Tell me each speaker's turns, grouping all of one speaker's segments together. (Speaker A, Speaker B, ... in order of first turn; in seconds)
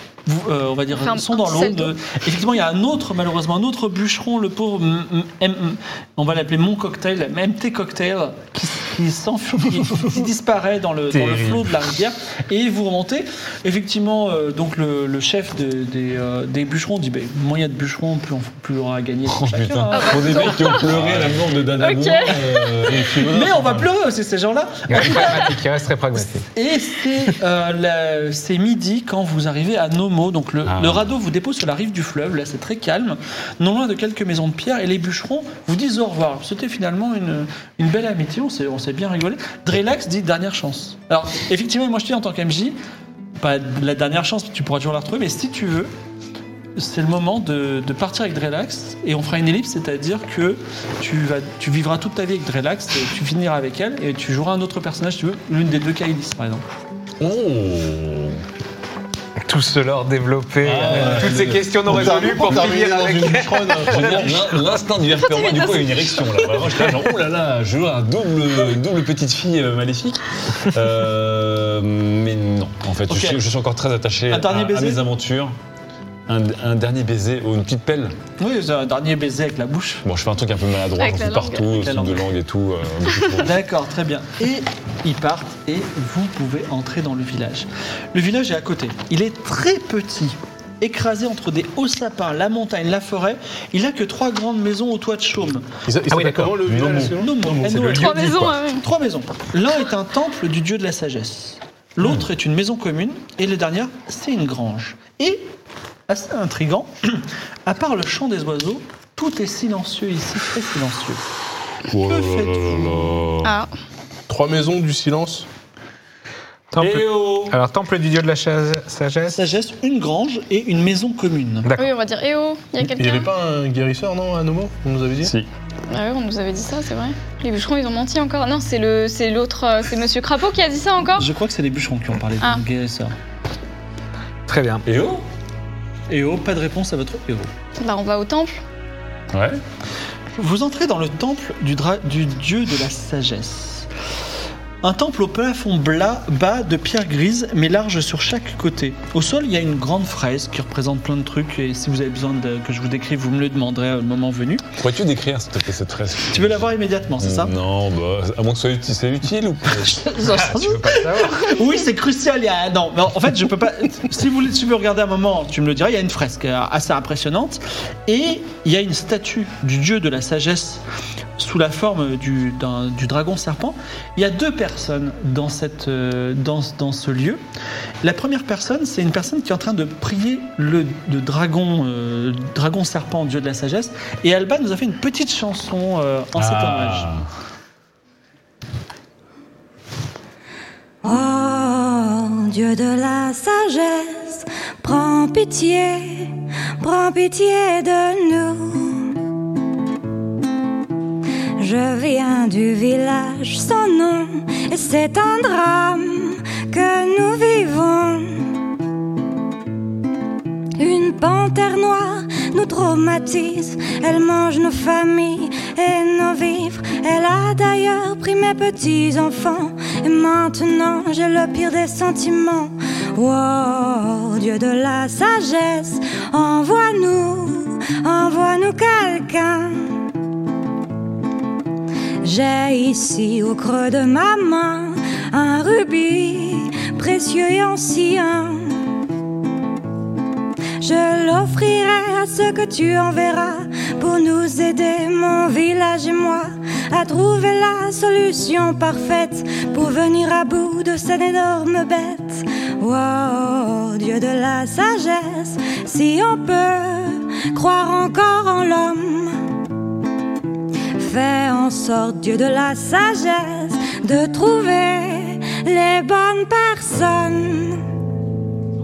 Speaker A: 0.2-20.4, 23.2-25.5, 26.5-42.8, 43.4-45.9, 46.8-56.6, 73.1-73.4, 74.3-75.0, 78.4-80.0, 81.7-82.2, 83.4-95.7, 96.8-105.5, 106.1-111.2, 112.0-113.0, 116.8-117.5, 119.3-121.7, 131.2-133.1, 136.1-137.5, 140.4-143.9, 144.8-154.7, 156.3-157.5, 159.8-170.8, 171.4-177.4, 178.0-187.1
Speaker B: 1.0-1.9, 19.9-21.0, 21.7-22.9, 65.2-66.0, 81.0-81.7, 97.9-98.8, 113.4-113.7, 121.7-123.3, 125.9-131.3, 137.8-138.6
Speaker C: 11.1-11.8, 24.9-26.5, 59.4-64.4, 96.1-97.0, 97.6-98.6, 116.7-119.5, 121.6-121.9, 134.5-134.8, 160.2-161.5
Speaker D: 19.3-23.1, 30.7-31.1, 57.2-58.4, 60.6-62.8, 63.9-75.5, 76.3-78.2, 80.0-83.6, 111.9-113.5, 125.2-125.5, 134.8-135.2, 139.3-139.6, 154.8-160.4, 186.4-187.2
Speaker E: 21.0-21.3, 22.8-23.9, 60.8-64.6, 95.8-97.9, 114.3-115.5, 122.9-125.3
Speaker F: 191.0-199.2, 201.6-208.7, 210.8-230.1, 232.2-238.9, 240.8-259.5, 260.9-267.9